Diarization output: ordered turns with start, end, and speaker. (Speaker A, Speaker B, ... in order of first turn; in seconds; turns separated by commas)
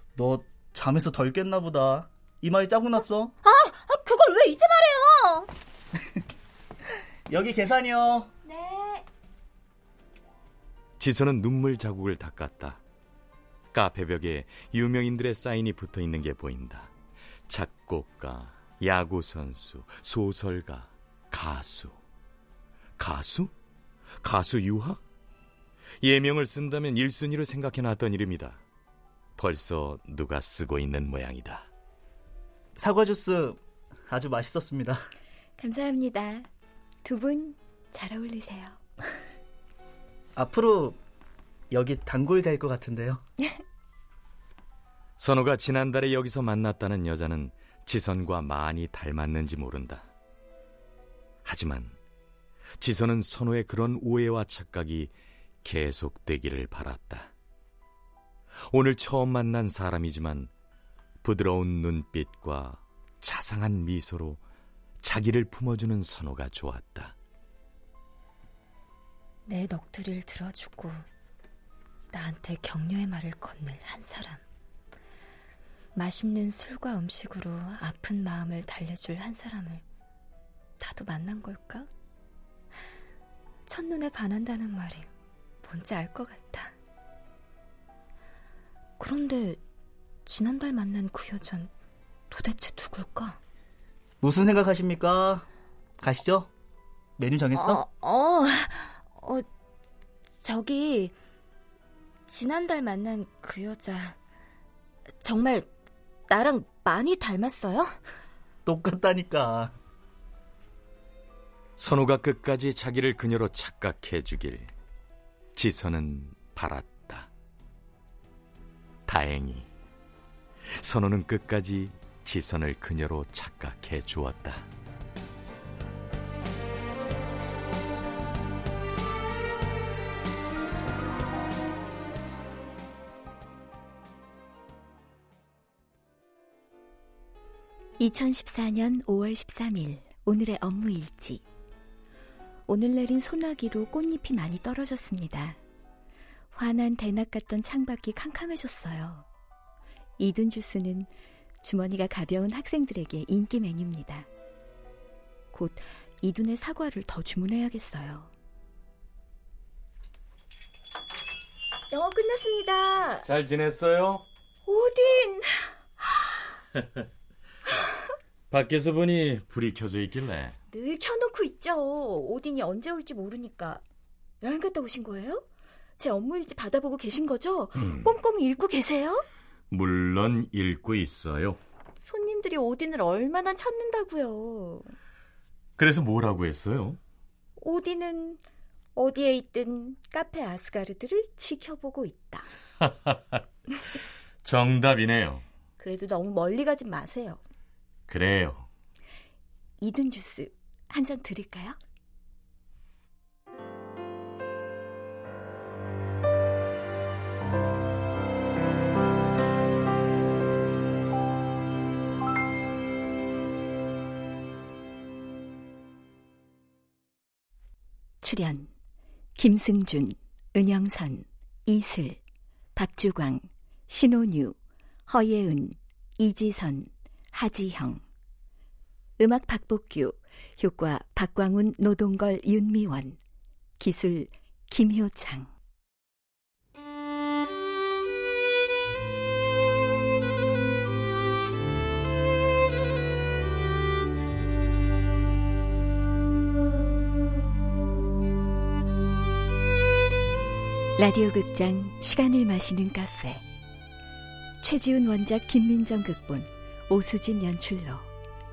Speaker A: 0.2-3.3, Speaker B: 3.4-5.5, Speaker A: 7.3-8.3, Speaker B: 8.5-9.0, Speaker C: 11.0-12.8, Speaker C: 13.7-16.9, Speaker C: 17.5-22.0, Speaker C: 23.0-23.5, Speaker C: 24.2-25.0, Speaker C: 26.0-28.6, Speaker C: 29.4-31.7, Speaker A: 32.8-35.0, Speaker D: 35.6-36.5, Speaker D: 37.0-38.8, Speaker A: 40.4-41.0, Speaker A: 41.7-43.2, Speaker C: 45.2-50.1, Speaker C: 51.5-52.0, Speaker C: 52.8-55.1, Speaker C: 55.6-57.3, Speaker C: 58.7-60.5, Speaker C: 61.2-64.4, Speaker C: 65.0-67.2, Speaker B: 69.5-71.0, Speaker B: 72.1-74.4, Speaker B: 76.0-79.8, Speaker B: 80.8-81.9, Speaker B: 83.7-85.1, Speaker B: 85.6-86.8, Speaker B: 89.0-89.6, Speaker B: 90.3-91.7, Speaker B: 92.3-93.4, Speaker A: 94.2-95.5, Speaker A: 96.0-96.5, Speaker A: 97.2-97.8, Speaker B: 97.5-99.5, Speaker B: 100.4-101.2, Speaker B: 102.3-104.2, Speaker B: 105.2-105.7, Speaker B: 106.3-108.0, Speaker A: 108.7-109.7, Speaker C: 111.8-114.7, Speaker C: 115.5-117.3, Speaker C: 119.1-119.7, Speaker C: 120.8-124.7, Speaker D: 138.0-141.4, Speaker D: 142.7-145.6, Speaker D: 146.6-149.3, Speaker D: 150.2-151.1, Speaker D: 151.6-154.3, Speaker D: 155.5-158.3, Speaker D: 161.9-163.3, Speaker C: 163.2-164.2, Speaker D: 164.7-165.6, Speaker C: 168.5-170.6, Speaker D: 170.7-173.8, Speaker D: 174.4-175.4, Speaker D: 176.0-179.2, Speaker C: 177.8-178.1, Speaker C: 179.7-181.6, Speaker D: 182.1-184.9, Speaker C: 185.8-187.0, Speaker D: 187.6-188.4, Speaker D: 189.0-192.5, Speaker C: 194.4-195.4, Speaker D: 195.8-197.4, Speaker C: 198.1-198.7, Speaker D: 199.8-201.8, Speaker D: 218.2-218.7, Speaker D: 219.4-222.2, Speaker D: 222.8-224.6, Speaker D: 225.1-228.0, Speaker D: 229.2-233.2, Speaker D: 233.8-235.5, Speaker D: 251.0-253.4, Speaker D: 254.6-258.1